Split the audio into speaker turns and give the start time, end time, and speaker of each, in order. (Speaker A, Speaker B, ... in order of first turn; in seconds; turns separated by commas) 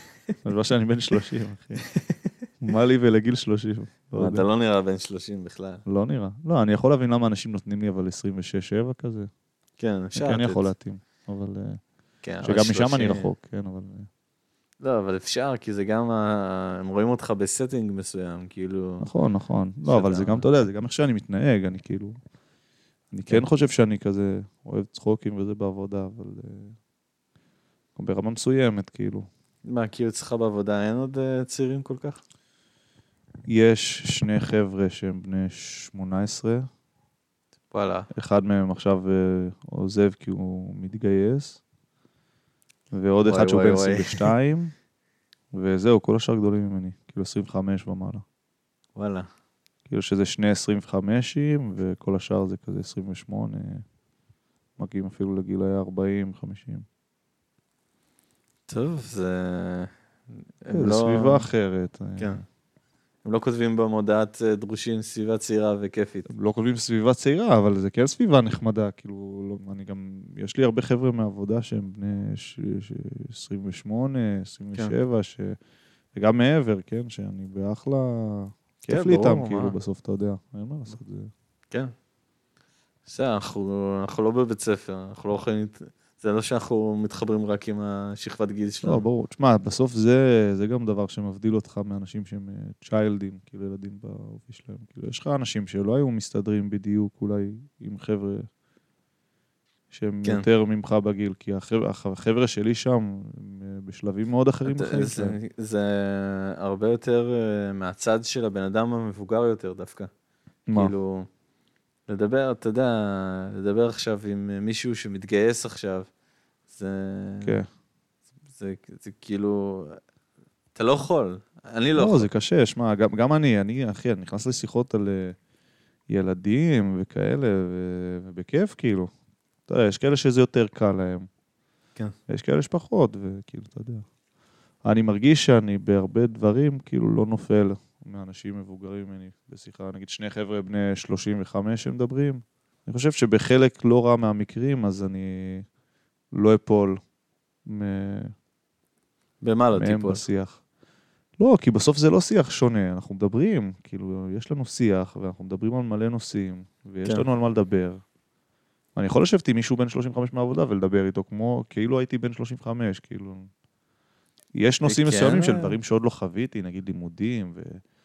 Speaker A: 0.4-1.8, Speaker A: 2.6-4.4, Speaker B: 4.2-5.8, Speaker A: 5.8-9.3, Speaker B: 9.8-10.7, Speaker A: 10.1-11.8, Speaker B: 12.2-13.3, Speaker A: 12.4-14.1, Speaker B: 14.8-19.1, Speaker A: 19.0-22.1, Speaker B: 19.8-20.4, Speaker A: 23.1-26.8, Speaker A: 27.9-29.3, Speaker B: 29.6-32.2, Speaker A: 33.5-36.7, Speaker B: 37.7-38.1, Speaker A: 38.1-41.6, Speaker A: 42.9-44.7, Speaker B: 43.2-44.3, Speaker A: 45.5-48.2, Speaker B: 49.0-49.3, Speaker A: 49.9-53.8, Speaker A: 54.8-56.9, Speaker B: 58.7-59.9, Speaker B: 60.6-61.5, Speaker A: 60.7-62.4, Speaker B: 63.2-66.3, Speaker A: 66.3-75.6, Speaker A: 76.1-81.3, Speaker B: 78.9-79.8, Speaker B: 83.1-89.0, Speaker A: 88.8-98.5, Speaker A: 99.9-105.3, Speaker B: 104.6-110.1, Speaker A: 110.7-110.9, Speaker B: 110.7-111.3, Speaker B: 112.1-116.1, Speaker B: 116.7-117.6, Speaker B: 118.5-120.0, Speaker B: 120.8-122.3, Speaker A: 122.0-125.3, Speaker A: 126.1-129.1, Speaker A: 129.7-131.3, Speaker A: 132.3-134.0, Speaker A: 134.8-145.7, Speaker A: 146.3-147.0, Speaker A: 147.7-148.3, Speaker B: 149.4-150.2, Speaker A: 149.8-150.6, Speaker A: 151.4-158.0, Speaker A: 158.9-163.5, Speaker A: 164.5-167.8, Speaker B: 164.8-165.8